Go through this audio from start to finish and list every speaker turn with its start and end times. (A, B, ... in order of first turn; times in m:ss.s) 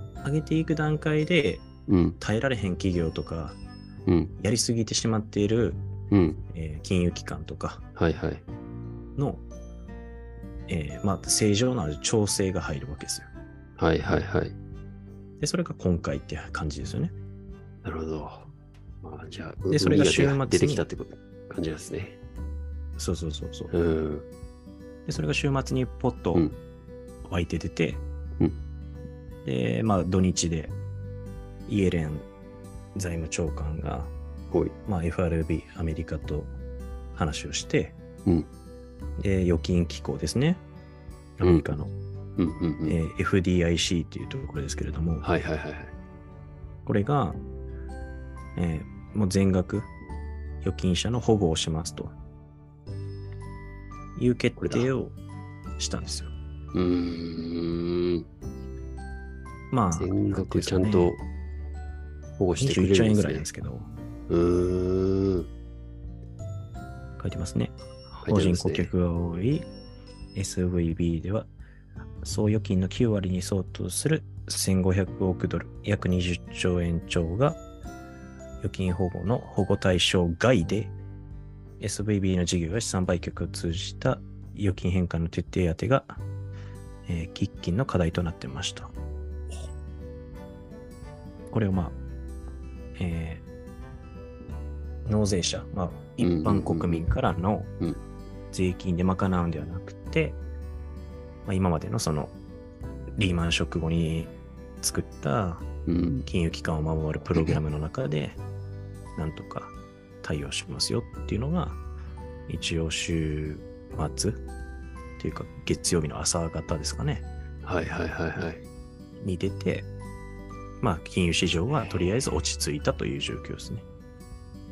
0:00.2-0:01.7 A
0:01.9-0:02.2 B
0:02.2-0:03.6 A
0:04.1-0:04.3 B
0:04.4-0:05.8 A
0:06.1-0:06.4 B
0:06.5-0:07.8 A
0:08.0-0:08.4 B
0:09.2-0:09.4 A
0:10.7-0:13.3 A
0:13.8-0:14.6 B
0:15.4-0:17.1 A
0:17.8-0:18.5 B
0:19.0-0:22.2 B
0:19.7-0:20.9 A
0:23.0-0:23.7 A
0:23.7-0:24.3 B
0:25.0-0:26.5 A
0:27.2-0:28.0 A
0:29.4-0:30.8 A
0:31.6-0:32.2 A
0:32.9-0:34.1 A
0:34.9-0:36.5 A
0:37.1-0:38.0 A
0:39.2-0:40.6 A
0:41.4-0:41.9 A
0:41.4-0:41.8 B
0:42.4-0:43.0 B
0:42.9-0:45.2 A
0:45.2-0:45.9 B
0:46.8-0:47.4 A
0:48.6-0:49.9 A
0:50.6-0:52.1 A
0:54.2-0:55.2 A
0:54.6-0:54.9 B
0:55.8-0:56.3 A
0:56.7-0:58.2 B
0:59.7-1:01.2 A
1:00.0-1:01.2 B
1:02.4-1:03.4 B
1:02.6-1:03.9 A
1:04.3-1:05.5 B
1:07.2-1:09.7 A
1:08.2-1:08.9 B
1:10.3-1:11.5 A
1:12.2-1:17.6 A
1:18.6-1:20.9 A
1:21.8-1:26.2 A
1:27.1-1:28.9 A
1:31.5-1:32.0 A
1:33.0-1:33.4 A
1:35.0-1:37.7 A
1:36.2-1:37.0 B
1:38.5-1:40.4 A
1:41.4-1:42.3 A
1:43.2-1:45.7 A
1:45.9-1:46.2 B
1:46.2-1:48.4 A
1:49.2-1:51.8 A
1:52.5-1:54.4 A
1:55.2-1:57.3 A
1:57.6-1:58.6 B
1:59.2-1:59.9 A
2:00.8-2:03.8 A
2:01.7-2:02.1 B